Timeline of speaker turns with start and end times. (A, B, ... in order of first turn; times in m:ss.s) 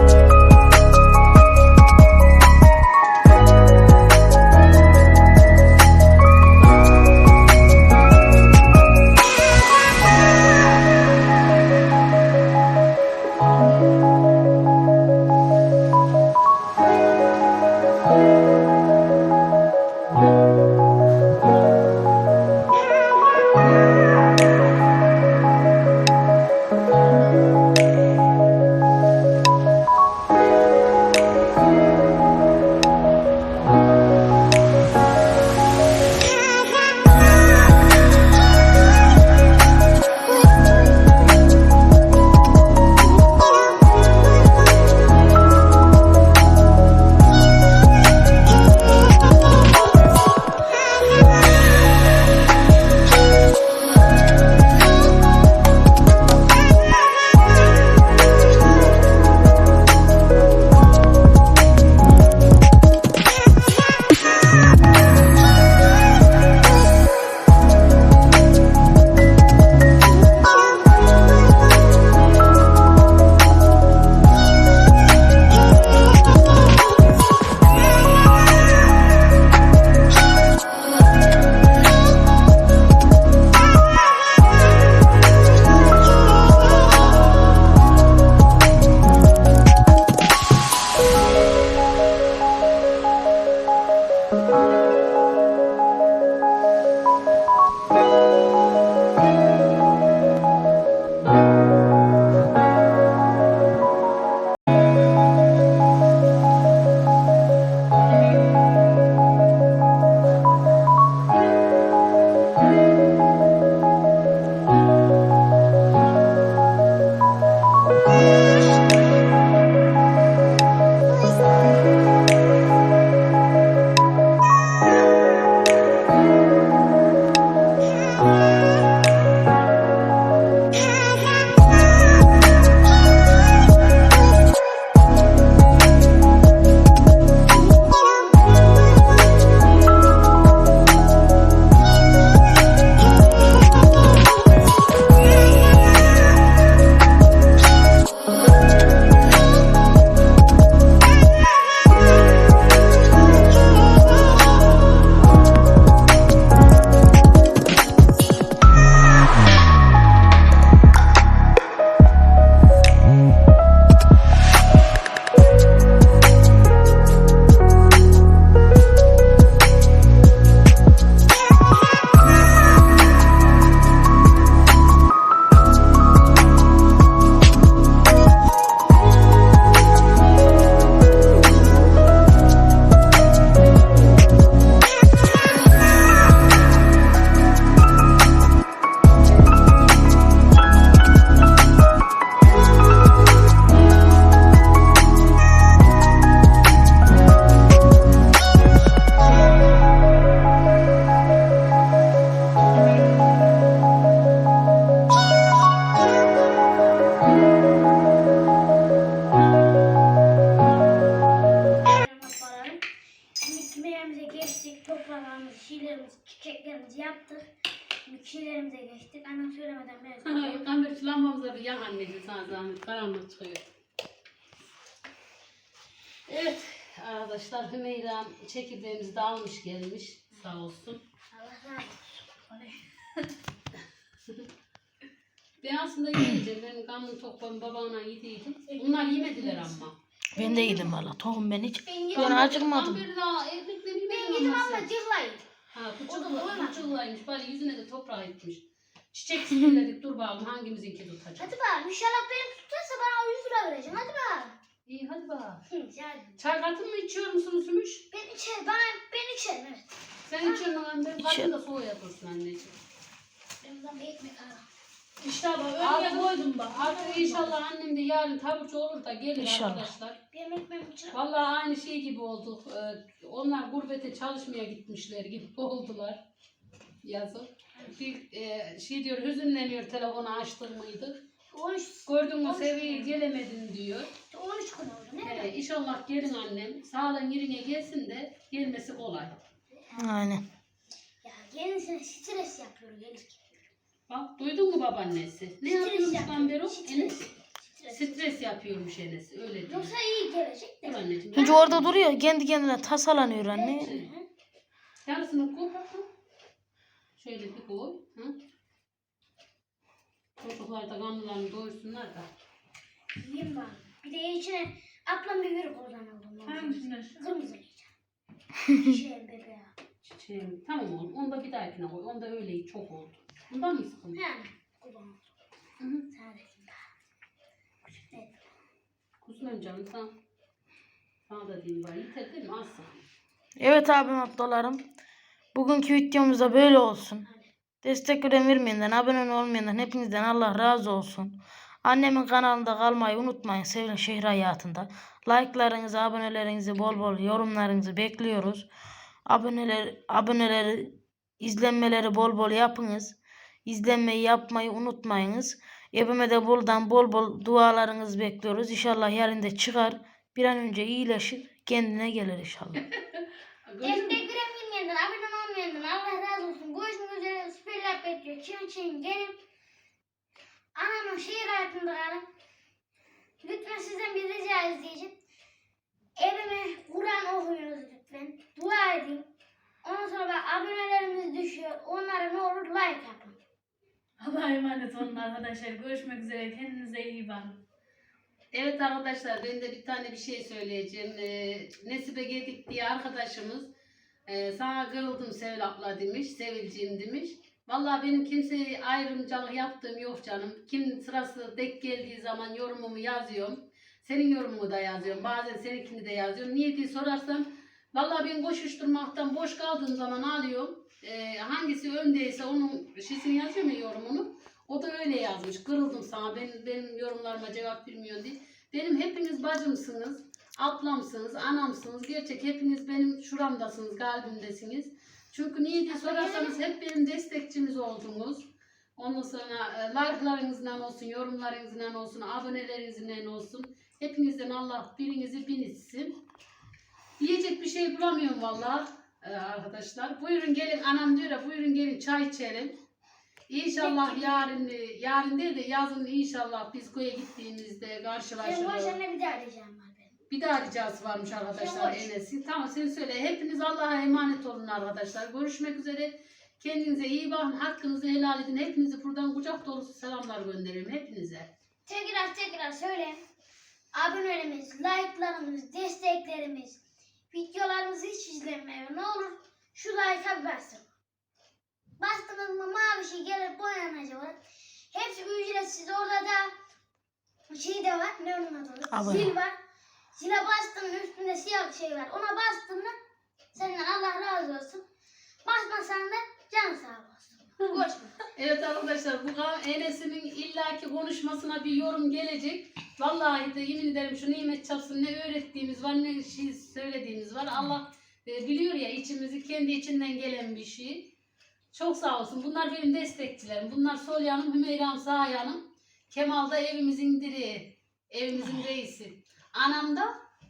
3:31.8-3:32.9 A
3:33.4-3:37.5 A
3:38.0-3:40.7 A
3:40.2-3:43.6 B
3:46.3-3:51.0 B
3:51.3-3:52.6 A
3:55.6-4:00.0 B
3:58.7-3:59.8 C
4:00.4-4:03.0 D
4:00.4-4:01.0 A
4:01.8-4:02.7 A
4:02.1-4:04.9 B
4:04.1-4:05.4 A
4:05.7-4:11.5 B
4:06.1-4:06.9 A
4:11.4-4:14.6 A
4:14.9-4:15.7 B
4:15.7-4:16.4 A
4:16.4-4:18.1 B
4:18.1-4:20.7 A
4:20.3-4:22.8 B
4:21.2-4:21.5 D
4:23.6-4:24.7 A
4:25.2-4:27.5 C
4:25.8-4:30.2 B
4:27.0-4:27.4 A
4:29.4-4:29.9 D
4:30.3-4:31.2 A
4:31.1-4:36.2 B
4:37.0-4:41.2 B
4:41.5-4:43.1 A
4:42.1-4:44.1 B
4:44.2-4:45.5 A
4:45.2-4:49.4 B
4:49.9-4:50.4 D
4:51.2-4:53.7 A
4:54.1-4:57.2 B
4:55.6-4:58.4 A
4:57.9-4:59.9 B
4:59.7-5:01.7 A
5:00.8-5:02.0 B
5:01.3-5:04.0 D
5:03.5-5:04.3 A
5:03.8-5:04.0 B
5:05.0-5:06.1 B
5:07.2-5:08.4 B
5:10.4-5:12.3 B
5:13.2-5:17.9 A
5:16.4-5:17.3 C
5:18.7-5:19.7 A
5:20.0-5:24.2 B
5:24.2-5:25.3 A
5:25.8-5:26.1 B
5:26.1-5:26.9 A
5:27.9-5:28.4 A
5:29.2-5:30.1 B
5:31.3-5:33.1 B
5:33.6-5:34.8 D
5:35.5-5:37.2 D
5:37.8-5:48.7 D
5:49.3-6:02.8 D
6:03.0-6:04.2 B
6:03.8-6:09.4 A
6:10.8-6:12.2 A
6:13.4-6:15.2 A
6:16.2-6:19.3 A
6:19.8-6:23.4 A
6:24.2-6:27.6 C
6:28.5-6:33.7 B
6:34.3-7:16.2 B
7:05.9-7:06.6 A
7:17.2-7:22.8 B
7:23.5-7:29.0 B
7:23.8-7:24.6 A
7:28.4-7:30.1 A
7:30.3-7:41.5 B
7:31.6-7:32.1 A
7:41.9-7:43.2 A
7:43.9-7:50.8 A
7:52.0-7:54.4 A
7:54.9-7:56.5 A
7:57.5-7:59.6 A
7:58.9-7:59.4 D
8:00.2-8:03.0 A
8:03.5-8:04.8 A
8:05.4-8:08.2 A
8:07.6-8:21.1 B
8:21.7-8:30.1 B